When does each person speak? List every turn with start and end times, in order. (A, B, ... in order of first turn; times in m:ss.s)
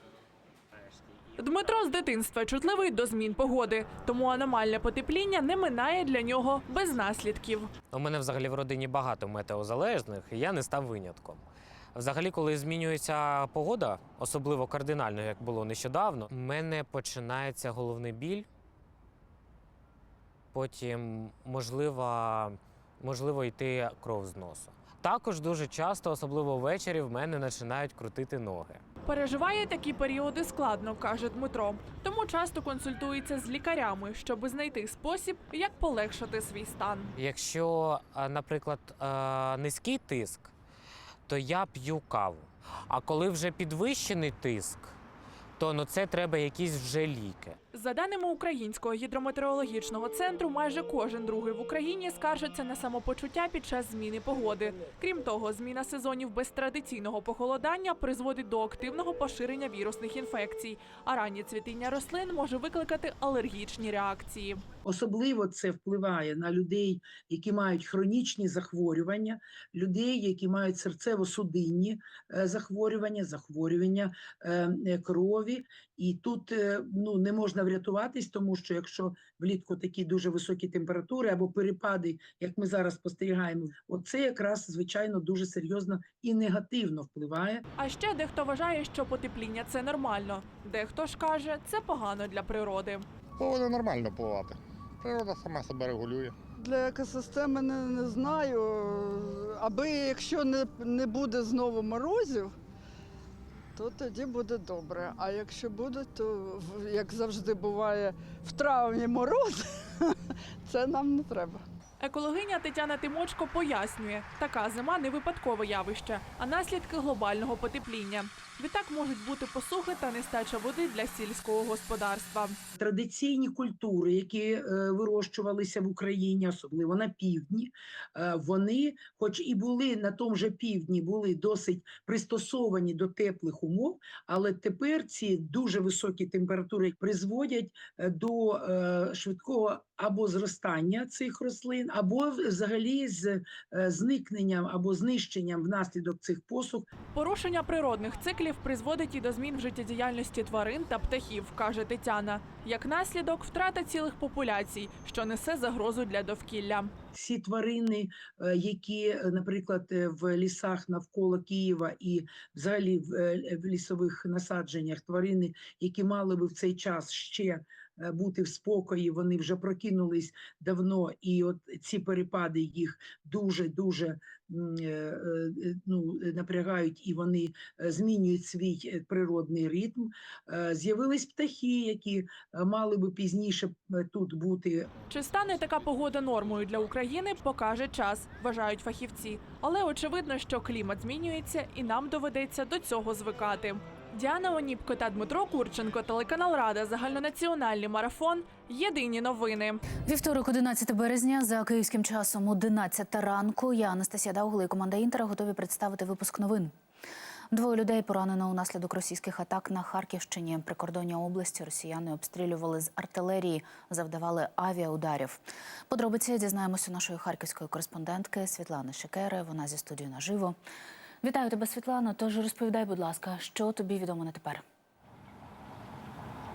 0:01.4-0:07.7 A
0:07.9-0:11.4 B
0:11.9-0:18.4 B
0:20.5-0:28.8 B
0:29.0-0:37.1 A
0:37.2-0:40.5 B
0:41.3-0:44.9 B
0:45.6-0:47.6 B
0:47.7-1:04.6 A
1:04.8-1:27.6 C
1:27.8-1:33.0 A
1:33.4-1:36.3 D
1:36.6-1:42.5 E
1:43.7-1:50.1 E
1:50.6-1:51.6 E
1:52.0-2:02.6 A
2:02.7-2:26.9 C
2:27.1-2:36.9 A
2:37.1-3:05.0 C
3:05.0-3:19.8 A
3:20.0-3:26.7 F
3:27.5-3:40.6 F
3:41.2-3:44.6 F